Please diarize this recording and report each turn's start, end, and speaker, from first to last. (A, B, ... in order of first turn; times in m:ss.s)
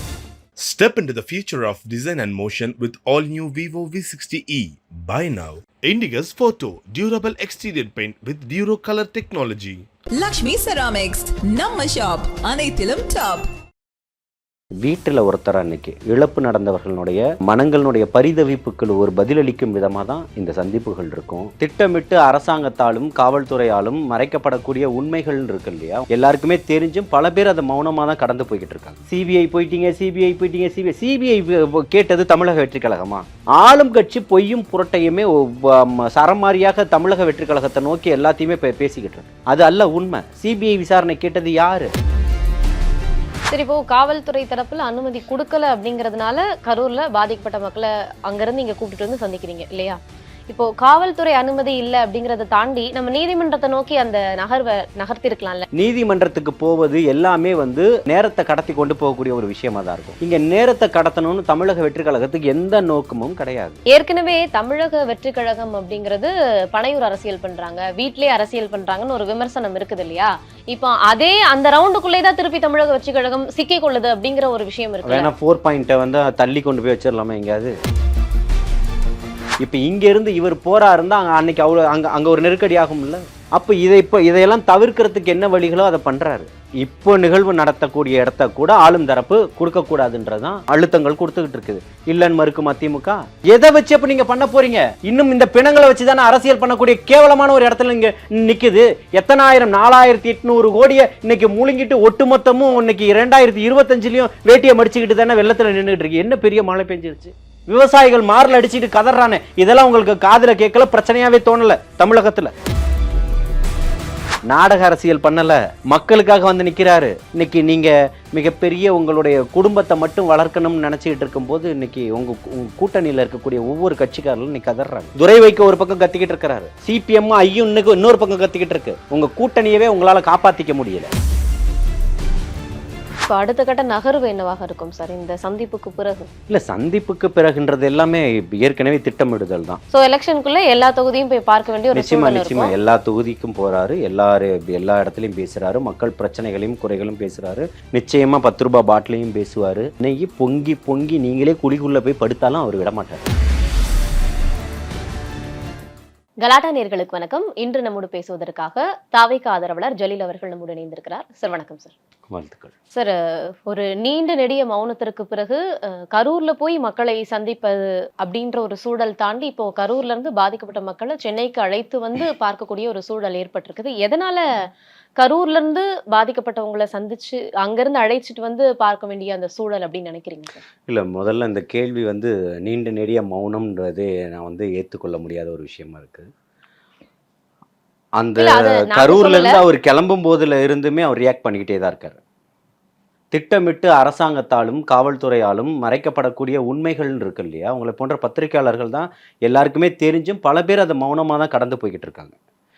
0:00.6-0:09.9 A
0:10.2-0:13.5 B
0:14.8-0:41.9 C
0:43.5-0:50.0 D
0:50.5-0:55.7 D
0:55.7-1:03.8 C
1:03.9-1:15.3 D
1:15.0-1:17.8 C
1:19.6-1:52.5 C
1:54.5-2:11.1 C
2:13.3-2:16.3 D
2:16.5-2:19.8 C
2:19.9-2:22.7 D
2:21.9-2:33.2 C
2:36.4-2:41.9 D
2:42.3-2:42.7 C
2:42.9-2:54.5 D
2:55.2-3:00.6 D
3:00.9-3:06.3 C
3:08.2-3:12.2 C
3:08.4-3:09.6 D
3:13.3-3:22.3 C